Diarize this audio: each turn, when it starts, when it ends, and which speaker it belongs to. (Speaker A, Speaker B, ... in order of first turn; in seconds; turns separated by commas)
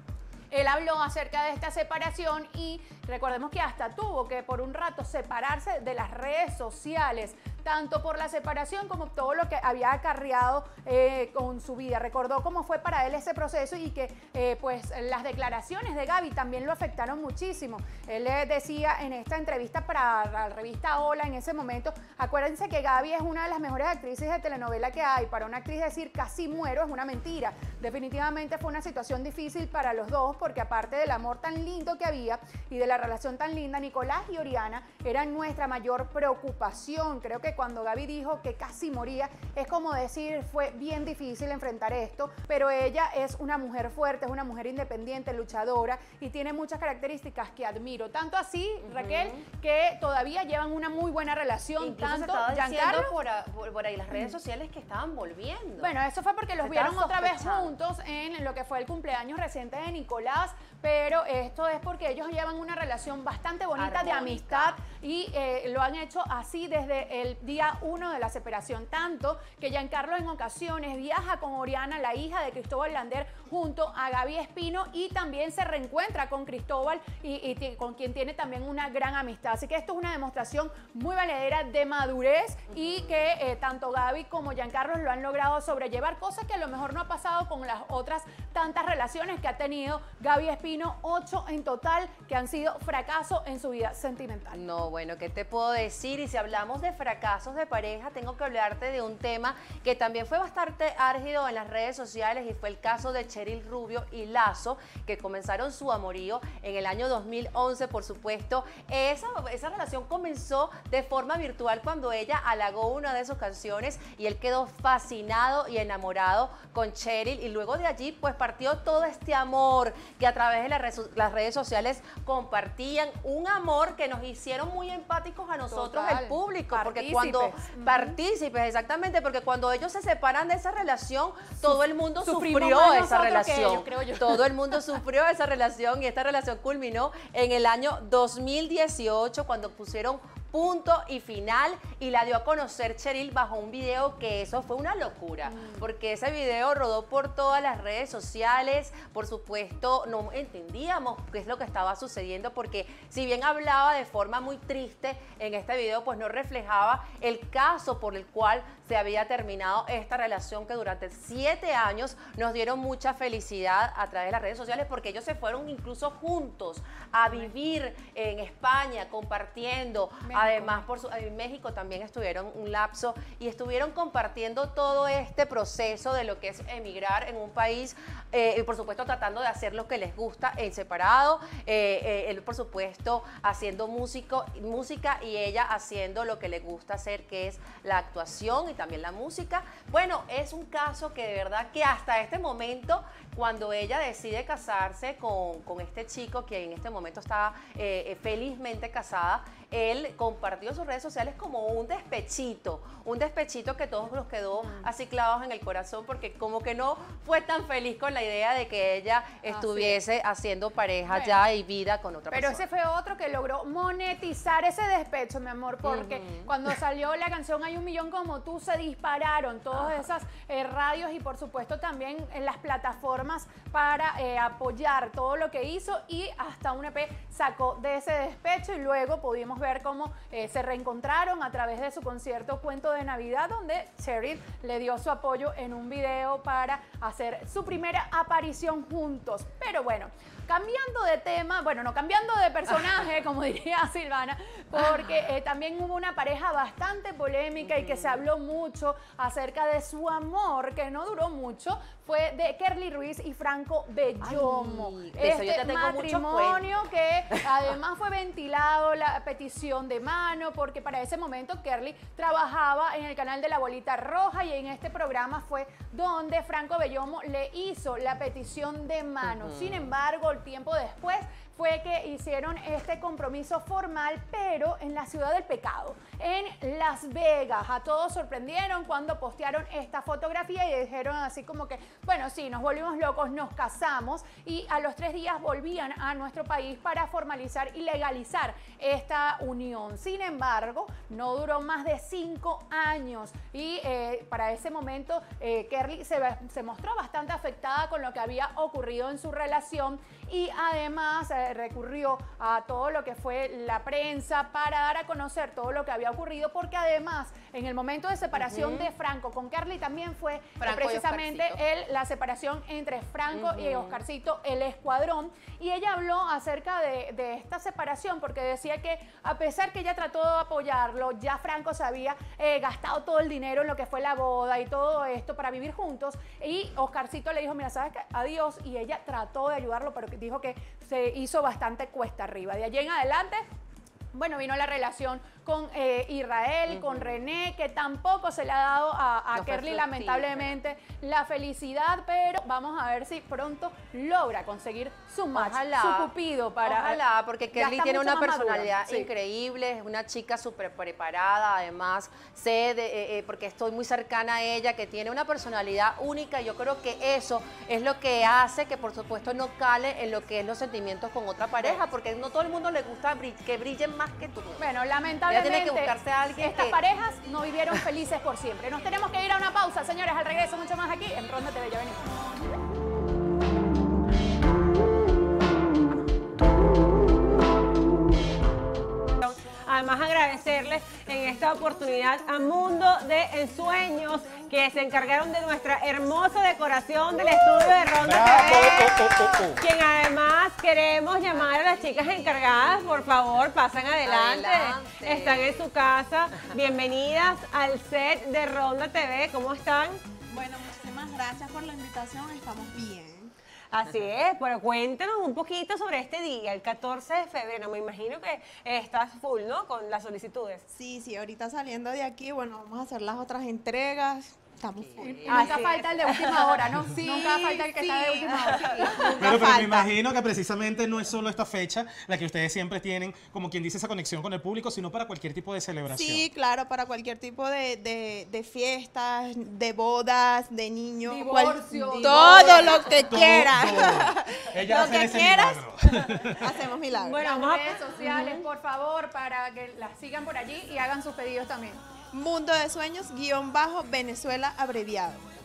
Speaker A: 0.5-53.1, Speaker B: 48.9-49.4, Speaker B: 51.8-55.9, Speaker A: 55.8-94.6, Speaker B: 56.6-57.7, Speaker B: 63.8-64.8, Speaker B: 82.8-83.1, Speaker B: 94.5-212.6, Speaker A: 125.7-128.2, Speaker A: 132.2-134.5, Speaker A: 170.3-170.8, Speaker A: 204.6-204.9, Speaker A: 209.4-210.0, Speaker A: 211.1-211.4, Speaker A: 212.3-333.4, Speaker B: 215.8-216.5, Speaker B: 247.6-248.2, Speaker B: 254.2-256.6, Speaker B: 269.2-269.9, Speaker B: 308.3-308.9, Speaker B: 310.6-311.6, Speaker B: 313.3-314.0, Speaker A: 334.1-347.0, Speaker B: 336.7-337.1, Speaker B: 339.3-340.6, Speaker B: 345.3-346.1, Speaker B: 346.6-364.7, Speaker A: 347.5-349.1, Speaker A: 364.6-372.6, Speaker B: 365.3-366.8, Speaker C: 379.2-400.0, Speaker D: 388.0-389.6, Speaker B: 394.1-395.6, Speaker E: 400.3-403.3, Speaker C: 403.7-410.6, Speaker E: 410.7-415.5, Speaker B: 414.8-415.2, Speaker A: 415.0-419.5, Speaker C: 415.3-416.7, Speaker E: 416.9-419.9, Speaker D: 419.2-426.3, Speaker E: 425.9-437.3, Speaker A: 431.1-433.0, Speaker B: 432.0-432.6, Speaker D: 433.1-436.5, Speaker C: 437.0-438.4, Speaker A: 437.1-441.8, Speaker E: 442.1-445.2